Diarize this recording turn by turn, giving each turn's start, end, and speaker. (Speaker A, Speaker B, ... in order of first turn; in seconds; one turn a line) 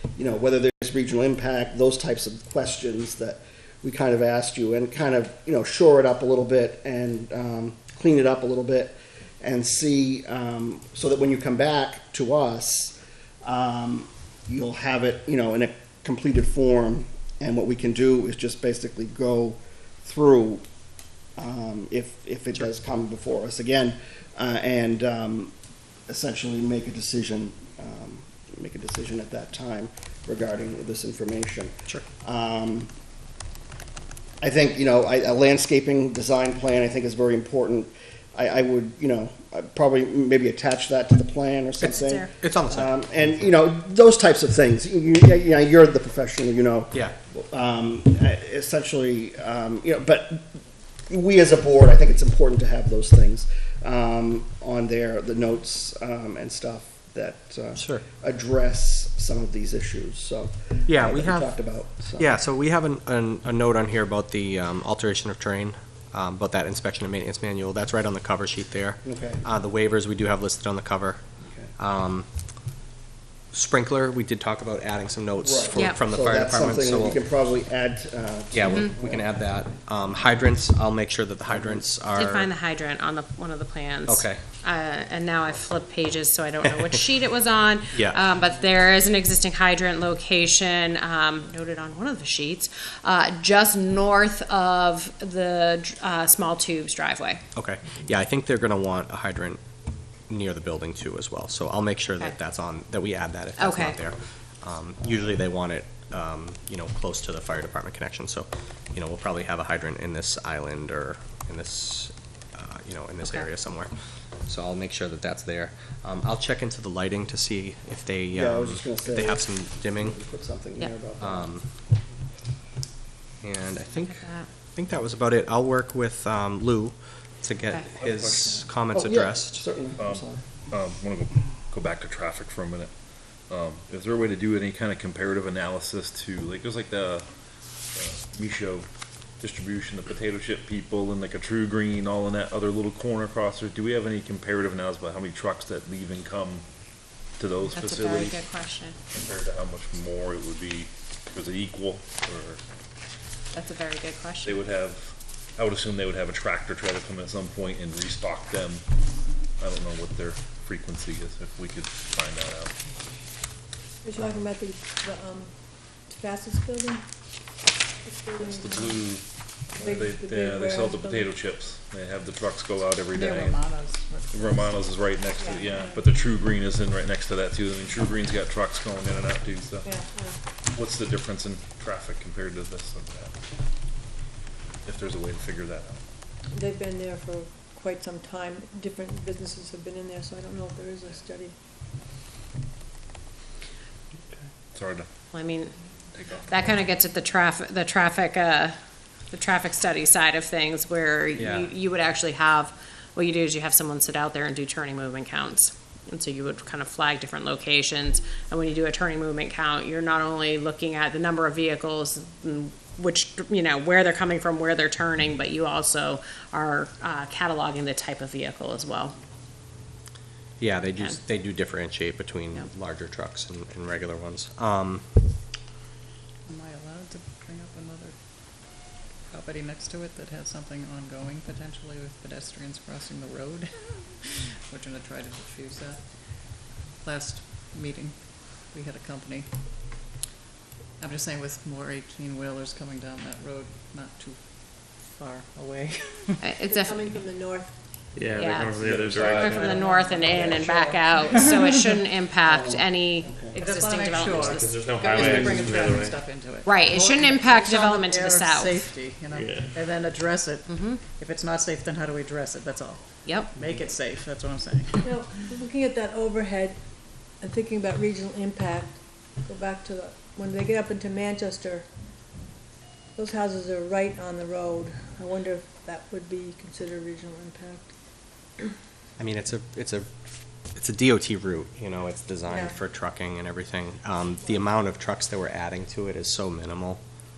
Speaker A: 0.2-20.6
Speaker A: 21.4-25.5
Speaker A: 26.1-32.9
Speaker A: 34.4-50.5
Speaker B: 41.8-42.3
Speaker C: 42.4-43.0
Speaker A: 51.1-62.4
Speaker C: 57.8-58.0
Speaker C: 60.9-61.5
Speaker C: 62.2-71.2
Speaker A: 69.0-69.4
Speaker A: 71.4-71.7
Speaker C: 71.8-72.3
Speaker C: 73.5-77.2
Speaker A: 75.4-79.3
Speaker B: 75.7-76.0
Speaker C: 78.5-82.5
Speaker A: 81.5-81.9
Speaker B: 82.2-97.4
Speaker C: 84.1-84.4
Speaker C: 87.9-88.2
Speaker C: 97.6-99.6
Speaker C: 100.3-113.9
Speaker B: 103.6-104.0
Speaker C: 114.5-120.2
Speaker A: 118.3-121.5
Speaker C: 121.2-121.7
Speaker C: 123.4-129.6
Speaker B: 124.0-124.5
Speaker D: 127.9-128.6
Speaker A: 128.9-130.4
Speaker D: 130.0-132.9
Speaker D: 133.5-137.3
Speaker D: 137.9-138.9
Speaker D: 139.4-146.7
Speaker D: 147.4-148.4
Speaker B: 147.7-149.0
Speaker D: 149.1-152.6
Speaker B: 153.5-154.6
Speaker D: 154.4-158.8
Speaker D: 159.6-162.7
Speaker E: 164.0-165.5
Speaker E: 166.1-167.0
Speaker E: 168.0-169.1
Speaker D: 168.4-173.6
Speaker E: 169.8-171.3
Speaker F: 173.1-174.8
Speaker D: 174.3-180.0
Speaker E: 175.4-176.1
Speaker E: 179.8-180.4
Speaker D: 180.7-183.3
Speaker D: 184.8-186.0
Speaker E: 186.5-191.5
Speaker D: 194.7-195.1
Speaker B: 195.3-195.8
Speaker D: 196.2-196.9
Speaker B: 196.5-198.8
Speaker B: 199.3-219.2
Speaker C: 201.4-201.7
Speaker C: 220.6-225.2
Speaker F: 226.5-239.5
Speaker F: 241.0-246.5
Speaker B: 246.4-247.1
Speaker E: 246.7-247.8
Speaker G: 248.2-249.8
Speaker B: 248.3-255.2
Speaker D: 248.8-249.7
Speaker E: 249.5-251.0
Speaker F: 249.6-251.9
Speaker A: 252.4-253.6
Speaker F: 253.6-265.5
Speaker G: 254.5-256.2
Speaker B: 256.6-258.9
Speaker G: 259.3-259.7
Speaker B: 260.7-261.0
Speaker B: 263.2-263.5
Speaker E: 265.0-266.8
Speaker E: 267.4-271.9
Speaker E: 273.2-277.9
Speaker C: 279.2-280.1
Speaker C: 280.7-287.0
Speaker E: 282.5-282.7